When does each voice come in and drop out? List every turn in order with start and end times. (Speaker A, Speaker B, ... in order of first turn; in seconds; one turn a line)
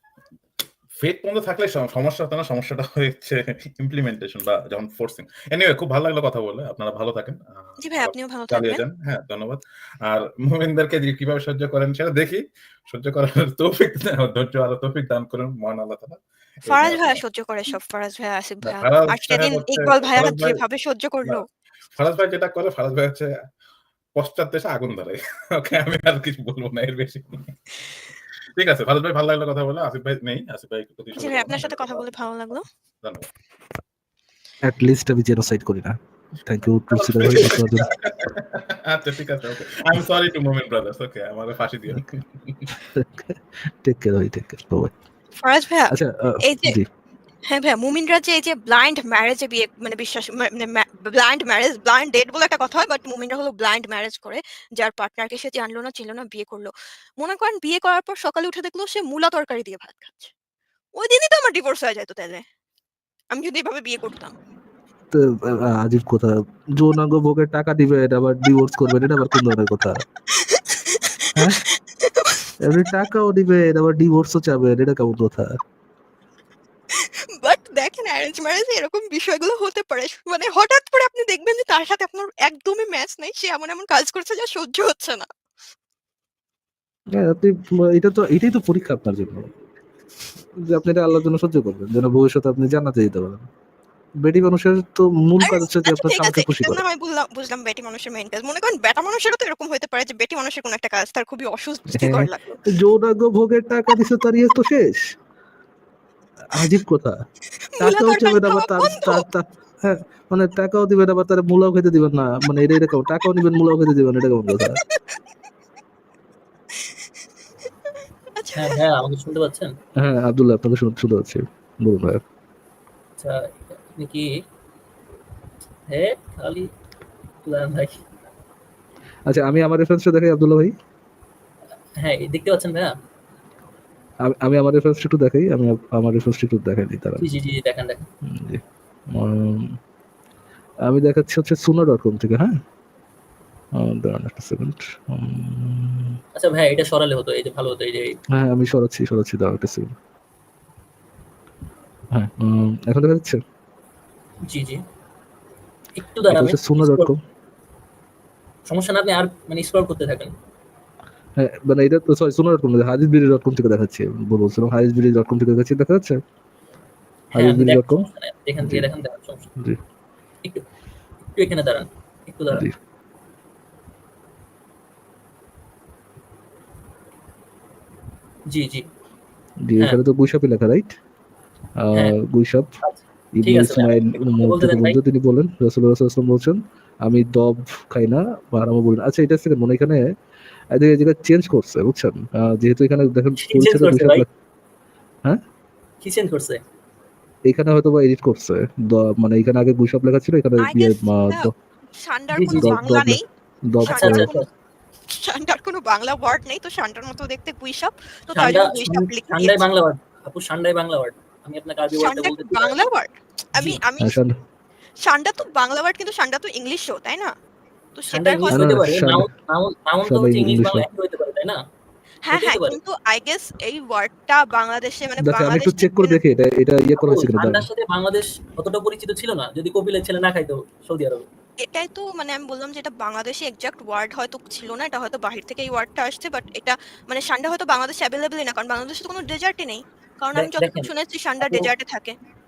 Speaker A: 1.0-17.2
Speaker B: 7.8-8.8
Speaker B: 16.7-21.4
Speaker A: 18.6-20.6
Speaker A: 21.9-23.3
Speaker A: 24.1-27.5
Speaker A: 28.6-32.1
Speaker B: 31.1-32.6
Speaker C: 34.6-37.9
Speaker A: 36.9-42.7
Speaker C: 42.8-44.9
Speaker B: 45.4-46.8
Speaker C: 45.9-46.9
Speaker B: 47.5-60.3
Speaker B: 61.0-62.4
Speaker B: 63.3-64.3
Speaker C: 65.1-70.0
Speaker B: 70.3-72.8
Speaker C: 71.3-71.6
Speaker C: 72.6-75.6
Speaker B: 76.9-85.3
Speaker C: 87.1-89.5
Speaker C: 90.6-93.5
Speaker C: 94.2-96.8
Speaker B: 95.4-102.7
Speaker C: 101.9-105.0
Speaker C: 106.5-107.2
Speaker B: 107.8-109.2
Speaker C: 107.8-114.8
Speaker B: 114.6-115.0
Speaker B: 118.3-118.8
Speaker D: 118.5-119.7
Speaker C: 120.0-122.2
Speaker D: 123.2-124.3
Speaker D: 125.9-126.7
Speaker D: 127.4-128.1
Speaker C: 129.3-130.7
Speaker D: 132.0-132.9
Speaker C: 134.2-137.2
Speaker D: 137.2-138.1
Speaker C: 138.2-139.8
Speaker C: 140.8-142.6
Speaker C: 143.7-146.2
Speaker D: 146.3-148.2
Speaker C: 148.3-149.9
Speaker C: 152.1-153.4
Speaker D: 154.4-154.8
Speaker D: 156.0-157.1
Speaker C: 156.3-157.2
Speaker D: 158.7-160.3
Speaker C: 161.4-166.2
Speaker D: 167.3-169.5
Speaker C: 167.3-168.1
Speaker C: 168.6-168.9
Speaker D: 171.2-172.7
Speaker D: 178.5-178.8
Speaker C: 179.7-181.0
Speaker C: 181.8-182.7
Speaker D: 182.8-185.0
Speaker C: 183.4-190.0
Speaker C: 190.7-194.3
Speaker D: 193.4-194.2
Speaker D: 196.0-196.6
Speaker C: 197.5-201.5
Speaker B: 200.6-203.2
Speaker D: 202.3-202.8
Speaker C: 202.6-204.3
Speaker B: 203.8-204.5
Speaker D: 203.8-204.5
Speaker B: 205.1-209.6
Speaker D: 208.3-212.8
Speaker B: 212.0-214.2
Speaker C: 214.0-214.3
Speaker B: 215.0-217.3
Speaker B: 217.9-218.6
Speaker D: 218.1-221.6
Speaker C: 218.5-219.3
Speaker C: 220.1-220.9
Speaker B: 222.2-226.2
Speaker D: 222.3-222.8
Speaker C: 225.2-227.7
Speaker D: 226.9-231.2
Speaker B: 231.6-242.2
Speaker D: 240.3-240.9
Speaker D: 241.4-241.7